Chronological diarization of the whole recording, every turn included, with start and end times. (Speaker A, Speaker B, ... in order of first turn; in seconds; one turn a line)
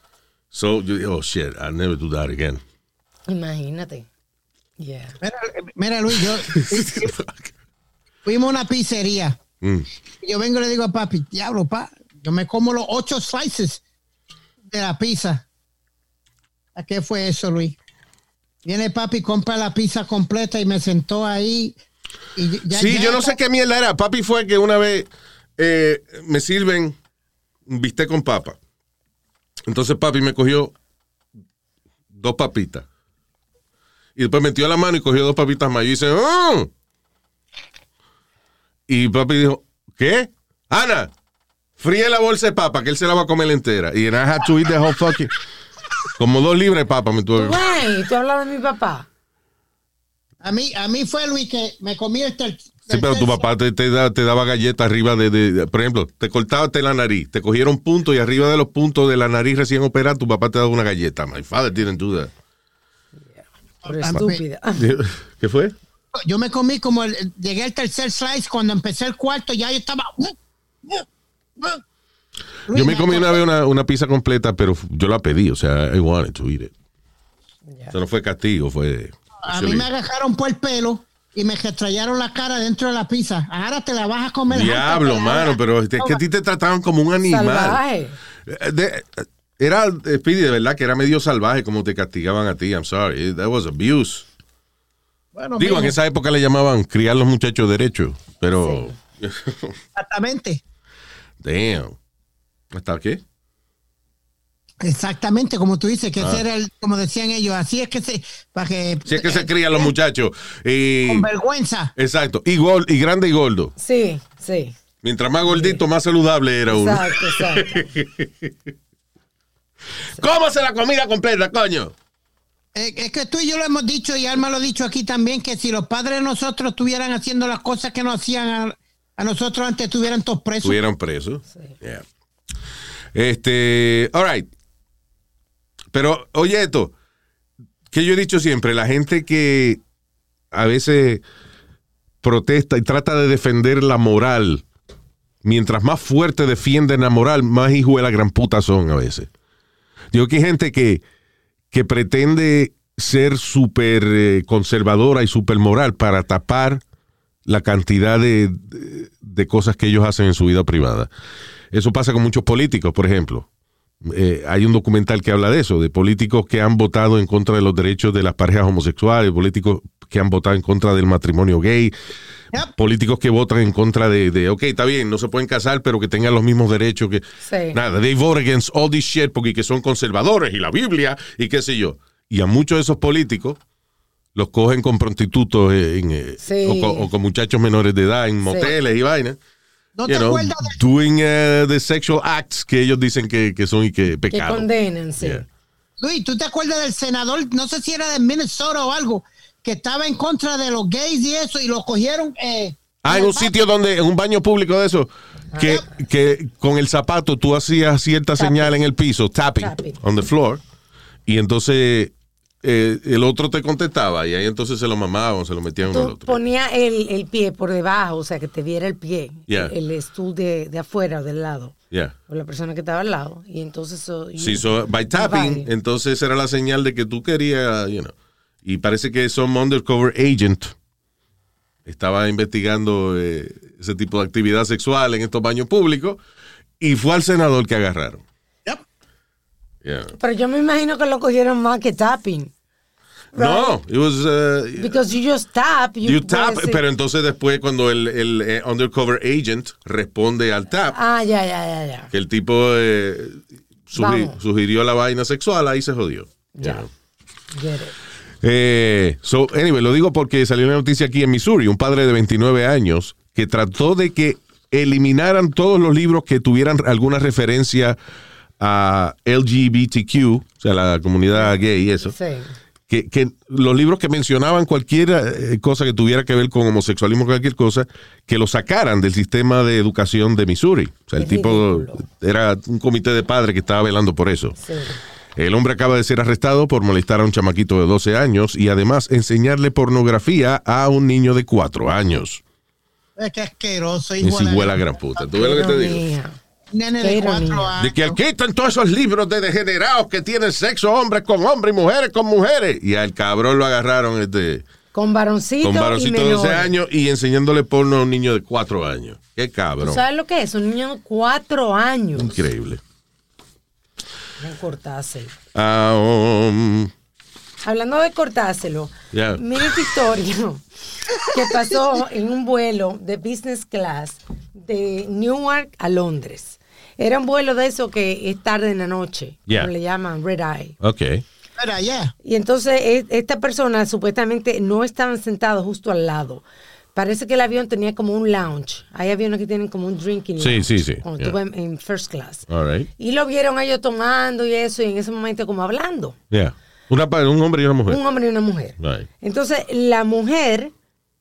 Speaker A: 0.5-2.6
Speaker B: 3.3-4.1
Speaker B: 4.8-5.2
Speaker C: 5.2-7.1
Speaker A: 6.5-7.5
Speaker C: 8.2-9.4
Speaker C: 10.2-13.8
Speaker C: 14.7-15.4
Speaker C: 16.8-17.8
Speaker C: 18.6-21.8
Speaker C: 22.4-23.4
Speaker A: 22.7-26.9
Speaker A: 27.7-28.6
Speaker A: 29.7-30.7
Speaker A: 32.1-32.9
Speaker A: 34.2-36.7
Speaker A: 38.9-41.1
Speaker A: 41.8-45.4
Speaker A: 46.2-47.6
Speaker B: 47.4-49.1
Speaker C: 50.4-53.5
Speaker A: 52.9-62.3
Speaker B: 63.3-64.9
Speaker C: 63.9-64.4
Speaker A: 64.8-65.7
Speaker C: 66.1-71.1
Speaker C: 72.7-73.4
Speaker A: 72.7-76.7
Speaker B: 77.7-78.0
Speaker A: 77.9-79.9
Speaker C: 79.4-86.2
Speaker A: 84.5-87.8
Speaker B: 87.3-88.2
Speaker A: 88.5-94.3
Speaker C: 95.3-96.0
Speaker A: 95.6-99.8
Speaker B: 98.6-98.9
Speaker C: 100.0-100.6
Speaker A: 101.4-102.0
Speaker A: 102.7-103.2
Speaker C: 104.8-109.9
Speaker A: 109.1-111.3
Speaker C: 111.1-111.9
Speaker A: 112.0-113.7
Speaker B: 113.8-114.7
Speaker A: 115.0-118.5
Speaker B: 115.5-115.8
Speaker B: 116.7-117.9
Speaker A: 120.2-121.9
Speaker C: 122.7-130.8
Speaker A: 130.6-132.0
Speaker A: 133.1-134.5
Speaker A: 135.9-136.9
Speaker A: 137.9-139.8
Speaker A: 140.5-141.2
Speaker A: 142.2-144.6
Speaker A: 145.4-149.3
Speaker A: 150.1-151.0
Speaker A: 151.7-156.8
Speaker A: 157.5-161.1
Speaker A: 161.7-163.5
Speaker A: 164.0-171.9
Speaker A: 172.8-183.6
Speaker B: 177.4-177.8
Speaker A: 184.4-189.4
Speaker B: 186.4-187.1
Speaker B: 188.4-188.7
Speaker C: 190.0-190.8
Speaker A: 190.1-194.7
Speaker B: 194.3-195.4
Speaker C: 196.0-203.6
Speaker A: 203.0-210.6
Speaker B: 205.5-205.8
Speaker B: 208.4-208.8
Speaker B: 209.6-210.0
Speaker A: 211.3-212.1
Speaker A: 212.6-216.4
Speaker B: 215.8-221.8
Speaker A: 219.5-219.7
Speaker B: 222.3-225.7
Speaker A: 224.4-228.1
Speaker A: 228.7-230.7
Speaker A: 231.9-236.2
Speaker A: 236.8-238.2
Speaker A: 239.8-240.2
Speaker B: 240.2-242.5
Speaker B: 243.3-243.8
Speaker A: 243.3-245.0
Speaker B: 244.8-246.8
Speaker A: 246.0-251.0
Speaker B: 250.9-252.1
Speaker A: 252.1-256.9
Speaker B: 253.9-254.4
Speaker B: 256.6-256.9
Speaker B: 257.5-258.0
Speaker A: 258.4-268.0
Speaker A: 268.6-272.1
Speaker B: 271.3-272.6
Speaker A: 272.9-284.6
Speaker B: 281.2-282.0
Speaker B: 284.6-285.0
Speaker A: 285.4-292.4
Speaker C: 293.2-294.8
Speaker A: 294.2-296.0
Speaker B: 295.4-296.4
Speaker C: 296.7-298.2
Speaker B: 297.0-297.7
Speaker A: 297.8-304.6
Speaker B: 304.9-306.7
Speaker A: 305.6-310.0
Speaker B: 309.8-312.3
Speaker A: 312.2-312.8
Speaker B: 314.4-315.4
Speaker A: 315.5-316.9
Speaker B: 317.6-320.6
Speaker A: 319.1-319.7
Speaker B: 321.2-330.8
Speaker A: 330.8-331.2
Speaker C: 331.6-332.1
Speaker B: 332.2-336.4
Speaker B: 336.9-342.5
Speaker A: 340.4-341.4
Speaker A: 342.5-342.9
Speaker B: 343.0-346.2
Speaker A: 346.3-348.0
Speaker B: 347.9-350.7
Speaker A: 348.8-349.1